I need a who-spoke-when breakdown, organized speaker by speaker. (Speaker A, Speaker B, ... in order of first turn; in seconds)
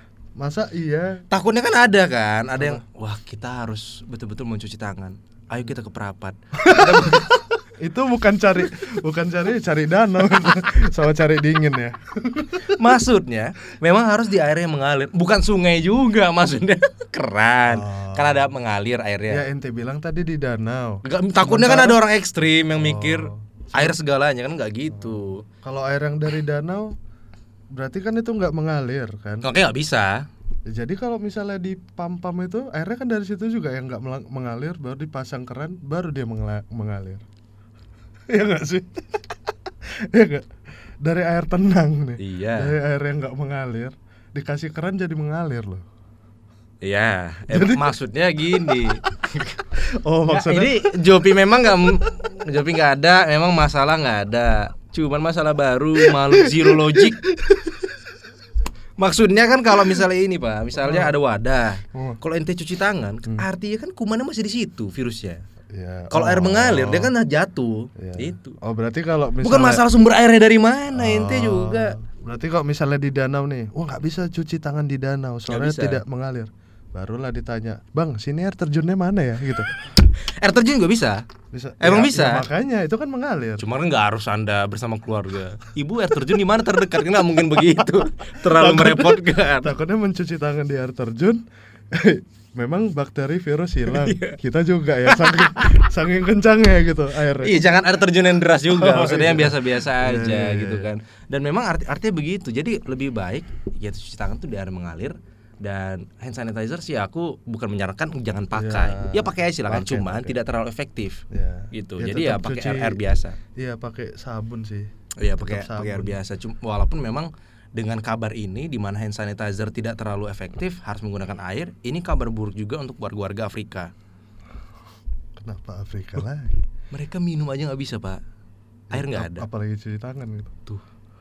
Speaker A: 0.4-1.2, 2.6-2.8, 6.5-12.8, 17.7-18.5, 19.3-22.0, 22.8-24.0, 24.9-27.0, 27.7-29.5, 30.7-37.2, 38.3-39.2, 39.8-40.5, 41.0-45.9, 47.5-48.0, 49.8-50.8, 56.0-58.1, 60.8-61.2, 61.9-62.2, 65.7-67.1, 68.0-69.8, 70.9-79.7, 81.5-83.7, 88.4-97.6, 98.7-100.9, 108.5-110.4, 111.3-113.0, 113.5-116.2, 125.4-126.6, 128.9-130.6
Speaker B: 1.3-7.4, 12.6-19.4, 21.0-25.4, 29.4-30.3, 42.2-42.7, 46.8-49.6, 50.3-57.2, 59.0-65.4, 66.1-68.6, 69.4-72.0, 75.5-76.0, 80.0-81.2, 81.8-82.5, 83.6-89.8, 93.9-94.4, 95.1-95.8, 97.4-113.4, 115.2-123.9, 126.9-128.2, 128.9-129.5